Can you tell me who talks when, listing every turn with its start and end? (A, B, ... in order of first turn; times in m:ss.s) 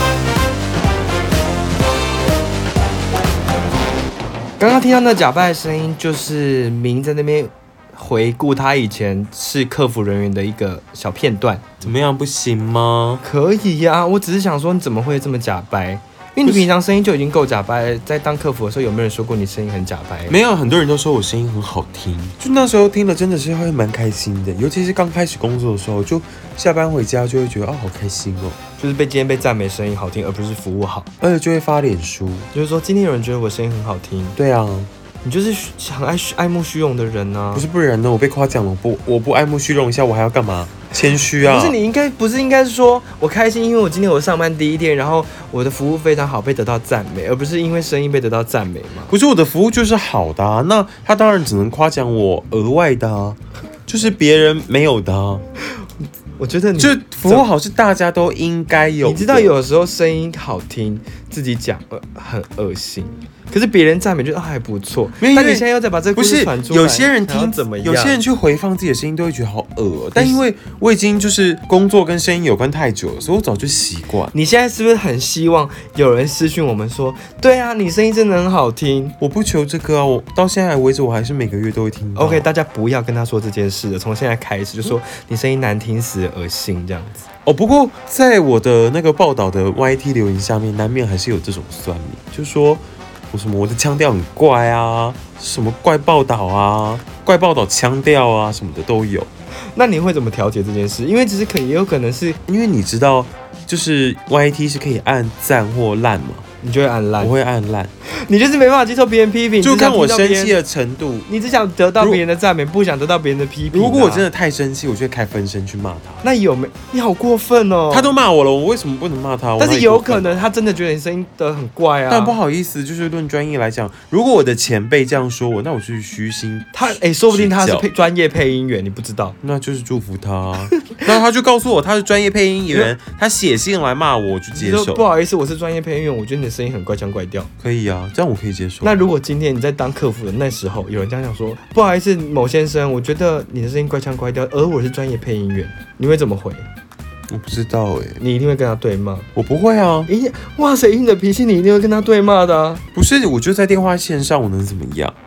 0:04.6-0:11.9 A
0:11.8-0:13.2 B
0:13.2-0:20.4 A
0:20.3-0:28.6 B
0:28.8-0:31.1 A
0:31.2-0:32.5 B
0:32.5-0:34.4 A
0:34.4-0:34.9 B
0:35.2-0:37.6 A
0:37.5-0:41.8 B
0:41.4-0:49.1 A
0:49.1-0:55.4 B
0:56.4-0:57.5 A
0:56.8-0:59.5 B
0:59.0-1:08.2 A
1:05.2-1:14.3 B
1:14.3-1:19.2 A
1:19.2-1:22.5 B
1:22.2-1:27.2 A
1:27.4-1:39.3 B
1:39.7-1:42.4 A
1:42.5-1:46.4 B
1:46.6-1:47.3 A
1:47.2-1:47.9 B
1:48.1-1:50.6 A
1:49.6-1:51.3 B
1:51.3-1:54.2 A
1:53.7-1:56.2 B
1:56.2-1:58.1 A
1:57.9-2:00.4 B
1:59.6-2:02.4 A
2:02.1-2:07.9 B
2:06.7-2:09.4 A
2:09.4-2:15.0 B
2:14.5-2:17.5 A
2:17.6-2:18.9 B
2:18.8-2:26.7 A
2:27.3-2:28.2 B
2:28.2-2:29.3 A
2:29.3-2:30.1 B
2:30.1-2:32.8 A
2:32.9-2:35.1 B